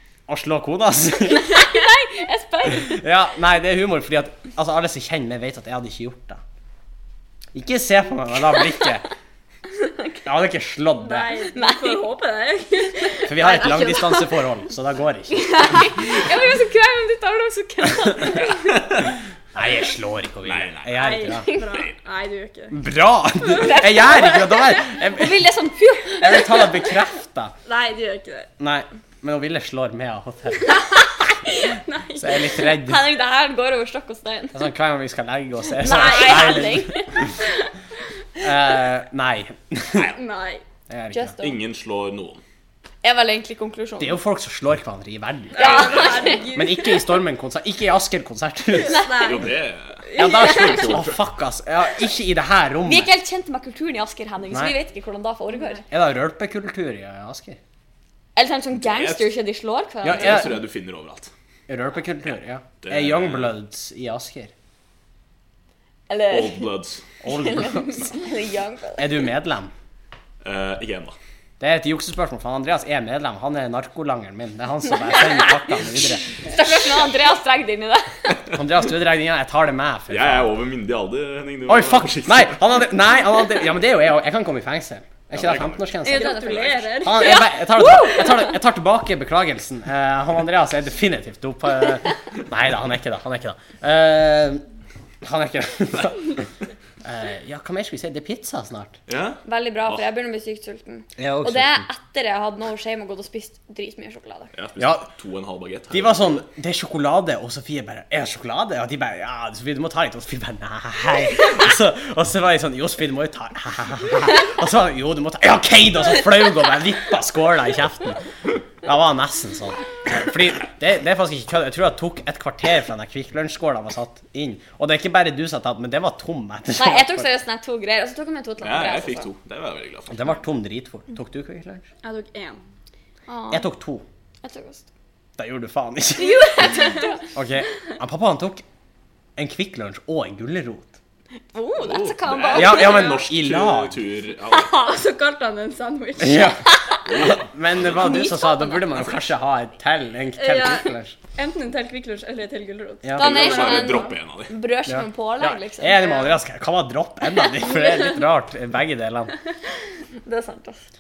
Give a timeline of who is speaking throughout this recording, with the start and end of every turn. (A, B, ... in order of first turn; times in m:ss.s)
0:00.3-0:01.6 A
0:01.3-0:03.0 B
0:02.7-0:06.4 A
0:07.5-0:09.0 A
0:09.7-0:10.2 B
0:10.2-0:11.4 A
0:11.0-0:14.3 C
0:11.5-0:12.0 B
0:13.3-0:15.9 A
0:13.5-0:14.0 B
0:15.5-0:18.8 B
0:19.6-0:21.5 A
0:20.4-0:21.9 D
0:21.0-0:22.8 C
0:22.7-0:25.5 A
0:23.5-0:26.9 B
0:26.2-0:27.5 A
0:27.6-0:28.5 C
0:28.6-0:30.8 A
0:31.5-0:32.6 C
0:32.2-0:33.0 A
0:32.5-0:34.6 B
0:34.5-0:37.3 A
0:35.8-0:37.3 B
0:35.9-0:36.6 C
0:38.4-0:40.1 A
0:40.1-0:40.6 C
0:40.9-0:41.4 A
0:41.1-0:41.6 B
0:41.4-0:42.4 D
0:43.0-0:44.2 B
0:44.0-0:49.2 A
0:45.6-0:47.1 C
0:45.6-0:46.6 B
0:48.8-0:49.5 C
0:48.8-0:49.4 B
0:49.2-0:51.2 D
0:50.1-0:51.0 B
0:50.2-0:53.1 A
0:52.8-0:55.8 B
0:55.9-0:57.6 A
0:58.4-1:00.6 B
0:58.8-0:59.3 D
1:00.0-1:00.6 A
1:00.1-1:01.3 D
1:01.7-1:04.5 A
1:02.8-1:03.5 D
1:06.1-1:06.7 B
1:06.3-1:07.0 D
1:07.2-1:08.1 A
1:07.2-1:09.2 B
1:09.0-1:09.7 A
1:10.4-1:11.2 D
1:11.6-1:16.3 A
1:15.1-1:15.5 B
1:16.4-1:18.4 B
1:18.5-1:20.6 A
1:20.1-1:22.6 D
1:21.7-1:34.6 A
1:25.3-1:25.9 D
1:26.0-1:28.5 B
1:26.0-1:27.4 C
1:26.5-1:26.8 D
1:35.2-1:36.5 A
1:37.0-1:39.0 A
1:39.1-1:40.0 D
1:39.4-1:44.5 B
1:41.2-1:41.9 A
1:44.5-1:46.4 D
1:44.8-1:45.1 A
1:45.9-1:58.2 A
1:58.8-2:07.3 A
2:06.8-2:09.3 B
2:08.6-2:10.4 D
2:10.1-2:11.9 A
2:12.0-2:12.6 C
2:13.3-2:13.7 B
2:13.5-2:14.0 A
2:14.4-2:14.8 B
2:15.4-2:18.6 A
2:16.2-2:17.2 B
2:19.4-2:21.0 A
2:21.5-2:23.2 B
2:21.8-2:24.8 D
2:22.5-2:24.0 A
2:24.7-2:26.6 C
2:26.2-2:31.2 A
2:27.1-2:28.1 D
2:27.9-2:29.1 B
2:30.4-2:34.2 C
2:33.0-2:33.5 A
2:33.2-2:36.4 B
2:33.2-2:34.5 D
2:34.9-2:39.3 A
2:40.2-2:40.8 B